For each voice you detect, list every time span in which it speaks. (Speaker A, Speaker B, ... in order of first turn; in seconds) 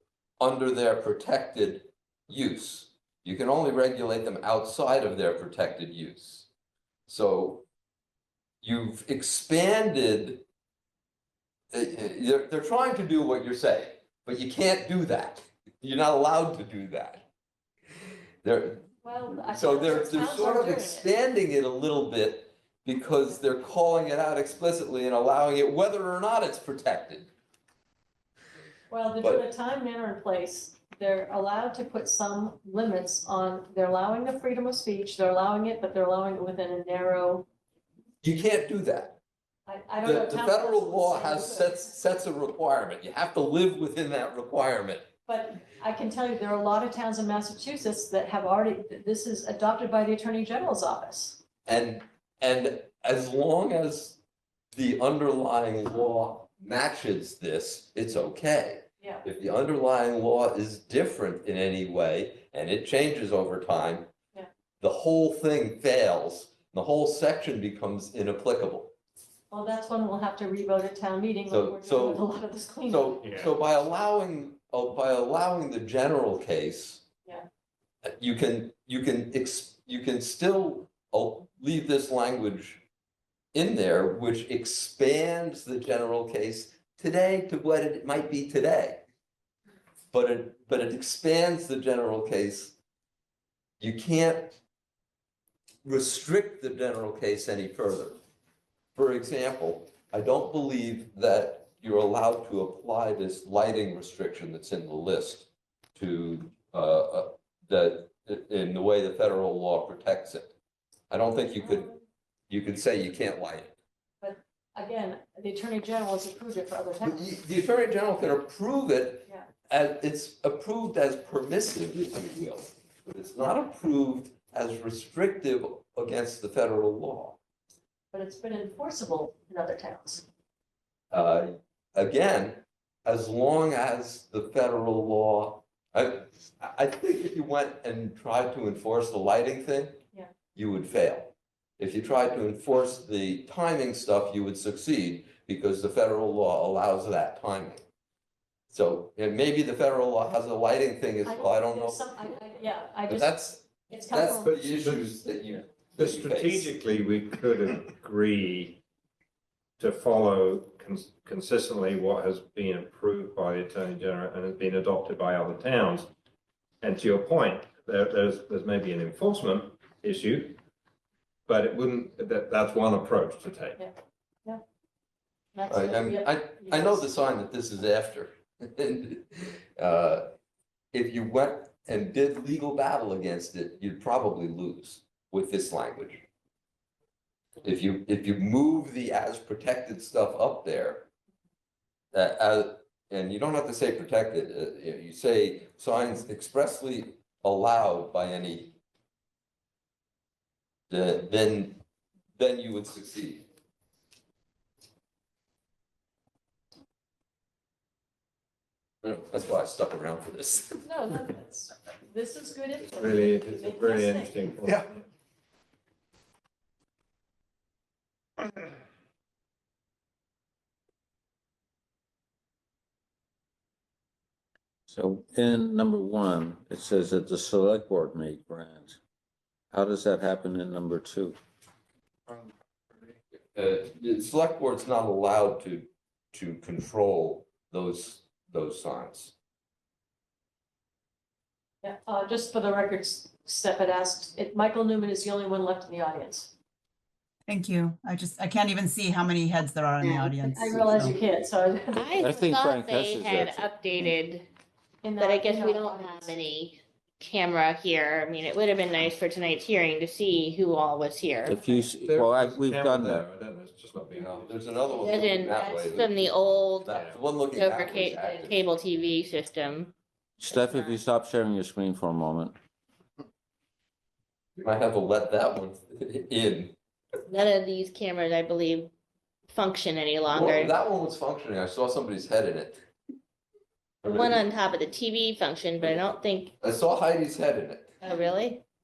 Speaker A: 0.4-6.5, 7.1-7.6, 8.6-10.4, 11.7-17.2, 18.4-18.9, 19.4-27.3, 29.2-29.4, 38.2-39.2, 40.0-45.0, 51.6-54.2, 54.7-64.1, 64.8-68.9, 71.5-72.2, 72.9-77.0, 78.0-82.8, 83.5-89.0, 90.1-92.7, 93.8-94.6, 95.8-98.2, 98.9-110.5, 111.1-111.9, 112.5-113.7, 117.0-127.4, 131.1-140.0, 140.5-147.8, 148.7-152.0, 153.1-156.7, 175.7-180.3, 180.9-186.2, 187.6-191.1, 192.1-198.7, 200.9-201.8, 202.4-203.4, 209.0-210.8, 233.5-239.3, 264.4-268.6, 274.6-276.7, 280.3-282.8, 284.0-284.4, 286.6-287.9
Speaker B: 19.0-21.1, 28.9-37.5, 39.6-41.8, 45.2-51.4, 59.0-59.2, 69.5-73.3, 111.6-112.0, 114.2-117.3, 128.1-130.2, 151.2-153.4, 153.9-154.5, 175.5-177.1, 210.8-214.5, 241.8-246.5, 250.5-252.5, 255.0-256.4
Speaker C: 73.2-73.5, 154.6-155.2, 155.9-158.8, 159.8-166.1, 166.8-170.6, 171.5-173.8, 212.8-214.9, 262.0-264.7, 266.9-267.2
Speaker D: 224.9-229.0, 229.7-231.4, 252.2-253.7, 261.4-263.2, 270.4-272.6
Speaker E: 247.5-251.2
Speaker F: 250.0-250.4, 251.9-254.5, 255.2-261.8, 264.9-266.9, 267.5-269.9, 270.4-271.0, 277.3-278.9, 279.5-280.7, 284.0-286.5, 288.0-288.6